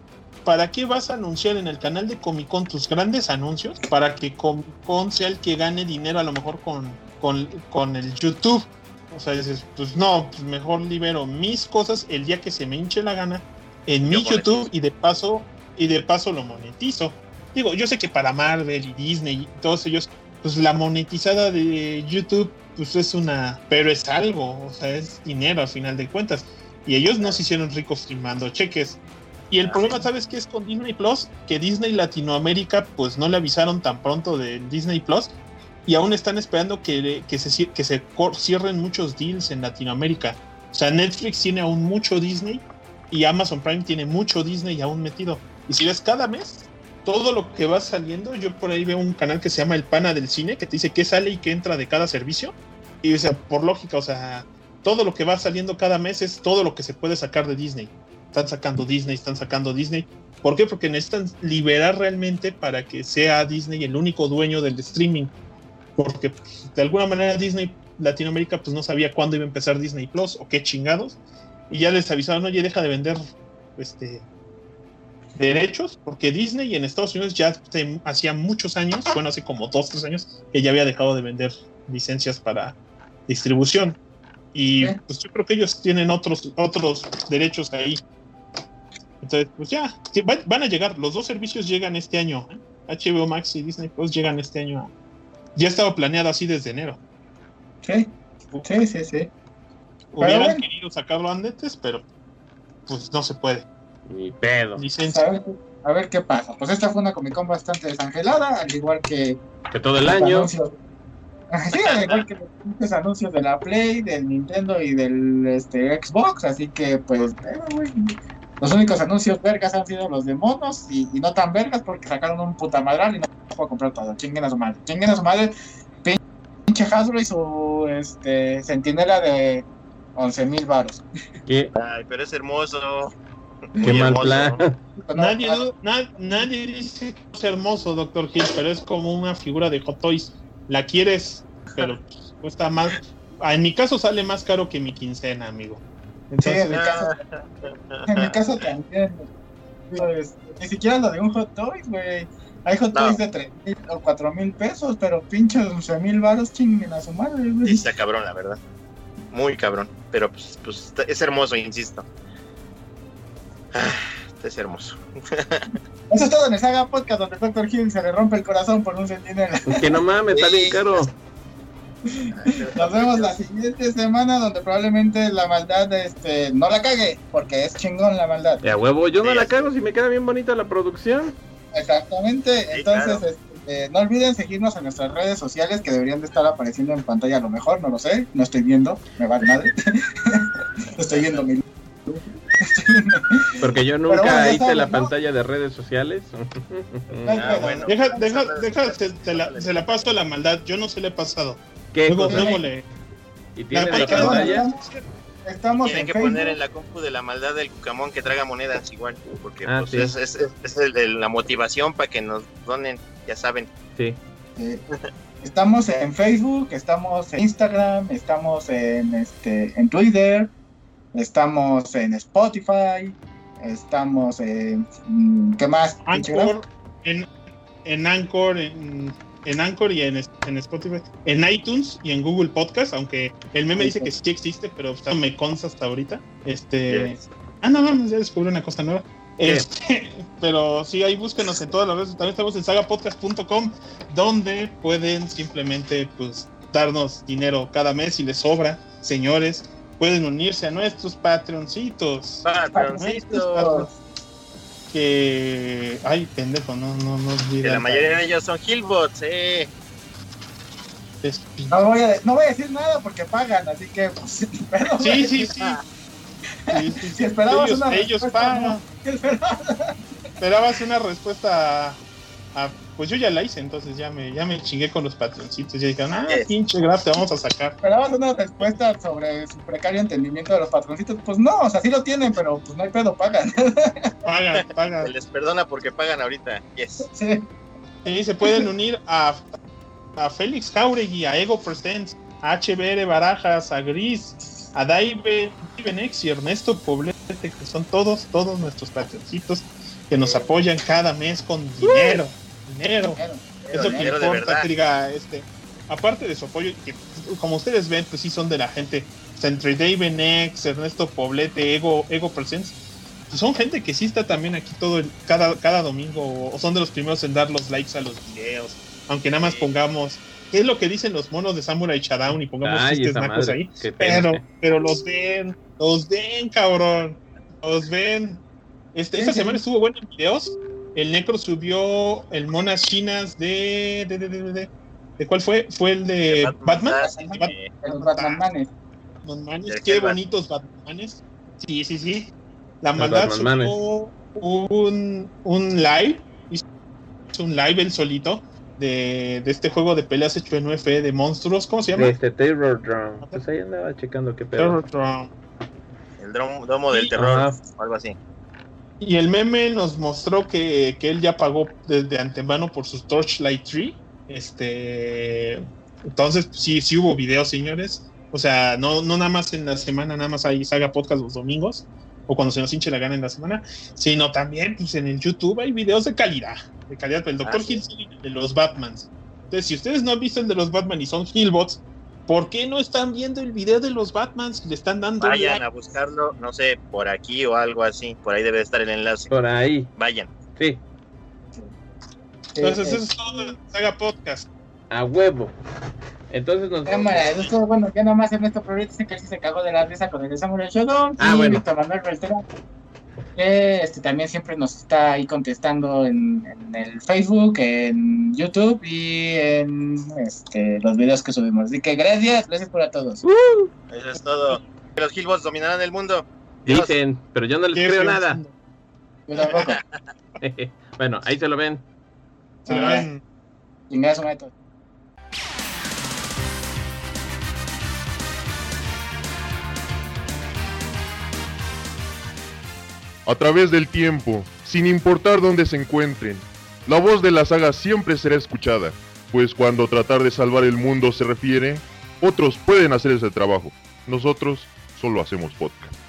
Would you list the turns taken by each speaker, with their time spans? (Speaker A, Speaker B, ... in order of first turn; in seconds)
Speaker A: 0.4-65.3, 66.0-74.2, 75.3-84.0, 84.5-88.0, 89.2-94.9, 95.5-97.0, 100.1-102.0, 102.8-103.7, 104.8-105.2, 135.1-146.8, 197.8-202.9, 203.7-205.0, 226.1-227.3, 227.8-252.5, 253.0-253.8, 254.9-258.2, 261.2-261.8, 265.0-265.8, 266.7-268.8, 270.4-272.0, 272.5-277.8, 284.2-285.1, 288.0-289.6, 290.1-328.4, 328.9-338.4, 339.2-346.6, 347.3-352.1, 354.6-355.3, 359.0-385.6, 392.6-394.5, 417.7-418.5, 422.6-423.2
Speaker B: 14.0-14.7, 29.6-30.0, 111.7-112.2, 131.8-133.1, 133.8-134.6, 146.7-148.3, 152.9-153.2, 157.6-158.6, 159.3-162.1, 163.7-165.7, 170.3-171.0, 172.3-173.3, 179.2-179.7, 182.7-183.2, 191.1-191.5, 197.3-200.1, 205.8-213.7, 236.9-237.2, 252.4-253.9, 257.6-259.7, 276.1-276.5, 284.6-287.1, 303.8-304.7, 319.4-319.7, 336.3-337.7, 339.7-340.2, 356.2-358.2, 377.4-377.8, 385.2-389.3, 389.9-390.3, 413.9-416.9, 419.4-419.8, 422.8-423.0
Speaker C: 97.8-98.1, 98.6-99.3, 100.2-100.6, 105.1-109.4, 110.1-110.8, 111.5-117.9, 118.6-125.5, 126.0-131.0, 133.8-134.0, 135.0-135.6, 146.4-147.1, 148.1-149.3, 149.9-157.9, 166.1-169.9, 172.1-178.7, 181.7-195.1, 197.2-197.9, 202.3-202.7, 203.9-204.9, 205.4-206.6, 214.6-214.8, 215.4-220.5, 221.1-226.5, 233.7-234.1, 252.7-253.9, 261.7-265.4, 266.7-270.0, 277.8-284.1, 287.0-287.5, 288.4-288.7, 303.0-304.2, 329.1-329.6, 337.0-338.7, 392.5-393.6, 396.9-402.4, 403.3-413.2, 419.3-419.8, 422.6-423.1, 423.9-424.5
Speaker D: 104.1-104.8, 109.7-110.5, 131.5-131.7, 133.8-134.8, 169.7-171.1, 178.6-181.3, 193.6-197.6, 201.9-202.6, 203.6-204.7, 209.6-210.1, 322.6-324.4, 343.0-343.8, 351.9-354.8, 357.1-357.6, 389.3-389.9, 390.6-390.8, 394.9-395.6, 396.3-397.4, 401.2-401.6, 413.2-413.7, 416.6-418.4, 420.4-421.8
Speaker E: 433.2-445.9